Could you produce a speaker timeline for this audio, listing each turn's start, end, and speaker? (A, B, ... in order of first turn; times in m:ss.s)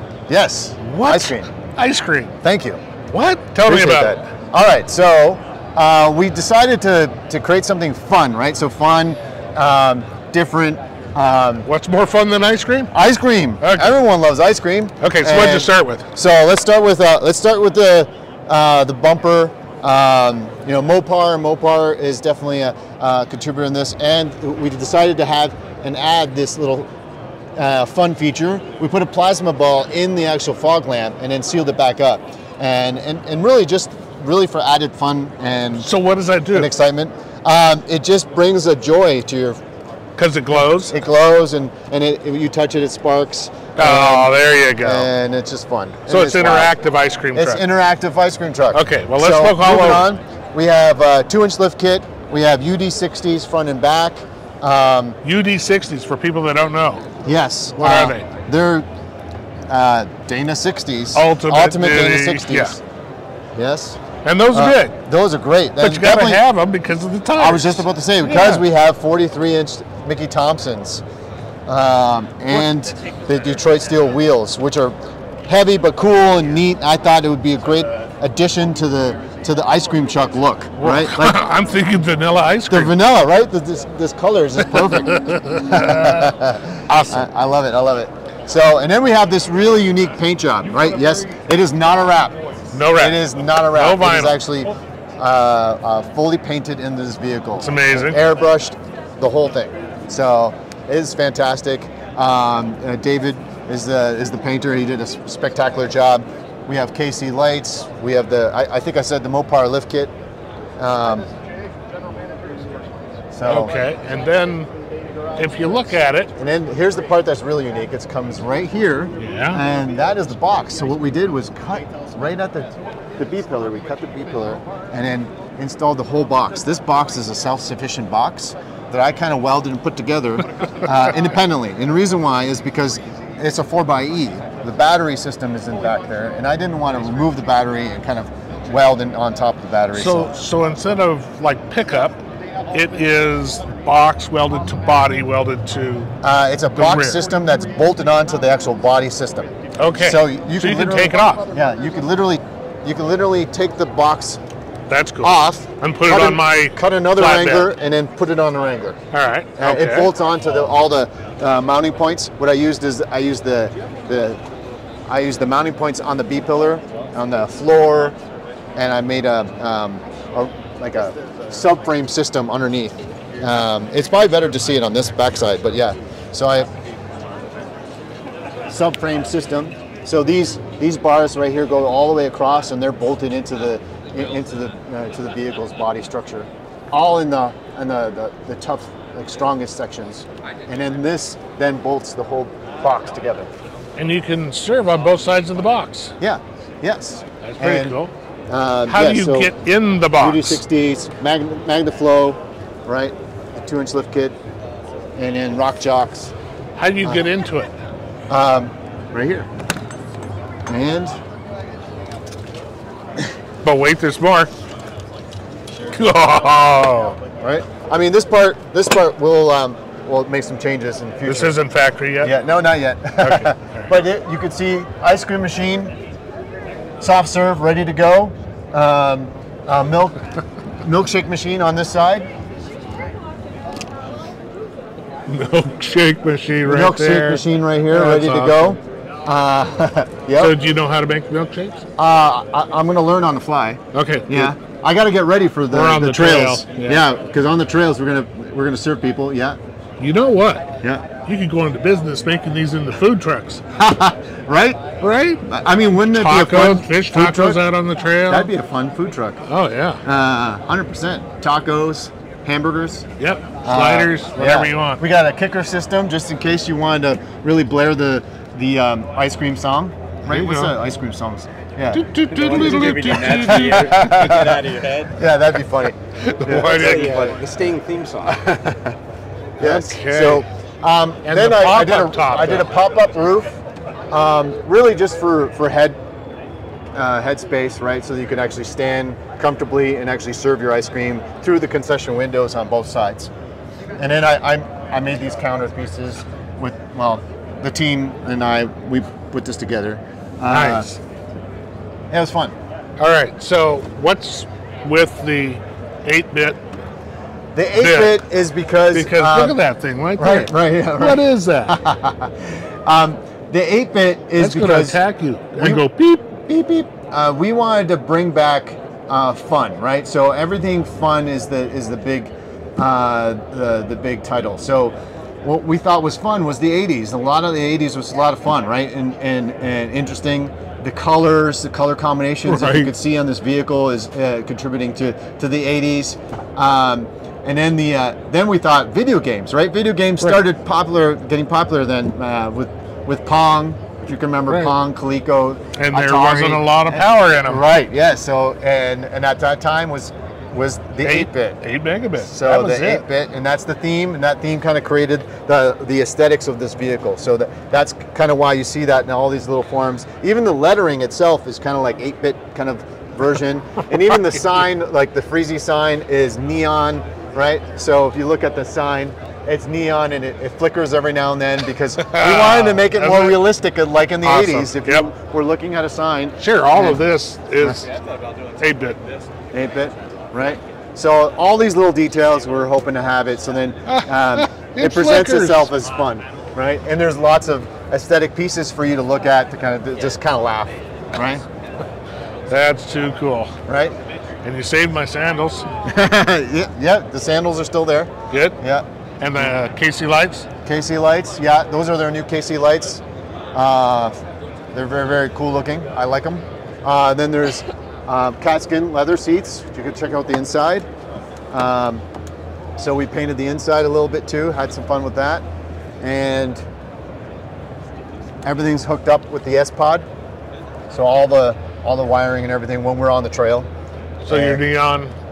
0:00.3-0:01.5 A
0:00.8-0:02.3 B
0:02.4-0:02.8 A
0:03.1-0:04.2 B
0:03.6-0:11.7 A
0:11.6-0:12.9 B
0:12.9-0:26.9 A
0:13.6-0:13.9 B
0:15.0-0:16.1 B
0:27.6-0:35.9 A
0:35.8-0:36.7 B
0:36.5-0:39.6 A
0:40.2-0:41.0 B
0:40.5-0:46.7 A
0:43.8-0:45.1 B
0:46.1-0:47.6 B
0:47.3-0:55.2 A
0:48.7-0:50.1 B
0:55.2-0:57.1 B
0:57.2-0:58.9 A
0:57.8-0:58.3 B
0:59.7-1:02.8 A
1:01.2-1:02.8 B
1:03.6-1:06.4 A
1:04.2-1:05.0 B
1:05.8-1:08.6 B
1:07.4-1:11.0 A
1:11.7-1:21.4 A
1:20.8-1:22.9 B
1:22.7-1:32.4 A
1:24.7-1:27.3 B
1:32.7-1:34.4 B
1:32.9-1:50.1 A
1:37.6-1:38.2 B
1:50.8-1:51.3 A
1:53.3-1:53.7 A
1:53.5-1:54.7 B
1:55.4-1:56.3 B
1:56.4-2:20.4 A
1:59.2-1:59.6 B
2:19.9-2:26.1 B
2:26.2-2:34.4 A
2:26.7-2:27.2 B
2:29.8-2:31.4 B
2:34.9-2:37.7 B
2:35.2-2:39.0 A
2:39.1-2:40.1 B
2:39.6-2:44.4 A
2:45.1-2:48.2 A
2:48.8-2:56.7 A
2:58.7-3:13.5 A
3:14.0-3:16.1 B
3:16.2-3:19.5 A
3:17.4-3:18.1 B
3:18.9-3:20.6 B
3:20.1-3:24.4 A
3:25.2-3:26.3 A
3:26.8-3:27.7 B
3:28.3-3:29.5 A
3:30.7-3:31.2 A
3:33.6-3:34.5 B
3:35.9-3:37.2 B
3:37.4-3:41.6 A
3:41.2-3:42.4 B
3:42.2-3:45.9 A
3:43.2-3:43.9 B
3:47.0-3:50.2 A
3:50.8-3:52.3 A
3:55.3-3:58.8 B
3:56.6-4:00.6 A
4:00.4-4:01.8 B
4:02.0-4:09.6 A
4:03.9-4:04.5 B
4:05.7-4:07.0 B
4:10.0-4:10.7 B
4:11.2-4:13.6 B
4:13.8-4:14.8 A
4:15.0-4:15.4 B
4:15.5-4:17.6 A
4:16.0-4:18.5 B
4:18.2-4:19.4 A
4:19.5-4:20.0 B
4:20.0-4:23.1 A
4:23.2-4:25.0 B
4:23.6-4:37.2 A
4:30.3-4:30.8 B
4:31.9-4:34.4 B
4:32.3-4:35.2 C
4:36.2-4:37.4 B
4:36.5-4:38.8 C
4:39.6-4:40.4 B
4:39.6-4:46.0 A
4:41.2-4:42.7 B
4:47.0-4:53.3 A
4:54.0-5:00.9 A
5:00.5-5:01.0 B
5:02.1-5:02.6 A
5:03.0-5:06.6 B
5:07.5-5:09.6 A
5:07.8-5:08.2 B
5:08.9-5:11.8 B
5:10.2-5:15.0 A
5:14.4-5:16.8 B
5:15.6-5:15.8 A
5:16.8-5:51.6 A
5:32.5-5:32.9 B
5:44.5-5:44.7 B
5:45.8-5:47.7 B
5:51.0-5:53.0 B
5:52.2-6:17.1 A
6:12.0-6:13.4 B
6:14.2-6:15.1 B
6:16.4-6:17.9 B
6:18.6-6:19.0 B
6:19.5-6:31.4 A
6:23.9-6:25.8 B
6:32.5-6:33.5 B
6:33.7-6:34.0 A
6:34.4-6:35.7 B
6:35.8-6:39.6 A
6:38.3-6:38.6 B
6:39.2-6:40.5 B
6:40.6-6:43.0 A
6:43.5-6:44.2 A
6:44.7-6:50.9 A
6:51.5-6:52.0 A
6:52.8-6:55.4 A
6:56.0-6:56.6 A
6:58.4-7:00.1 A
7:00.9-7:03.7 A
7:04.2-7:05.1 B
7:04.3-7:04.6 A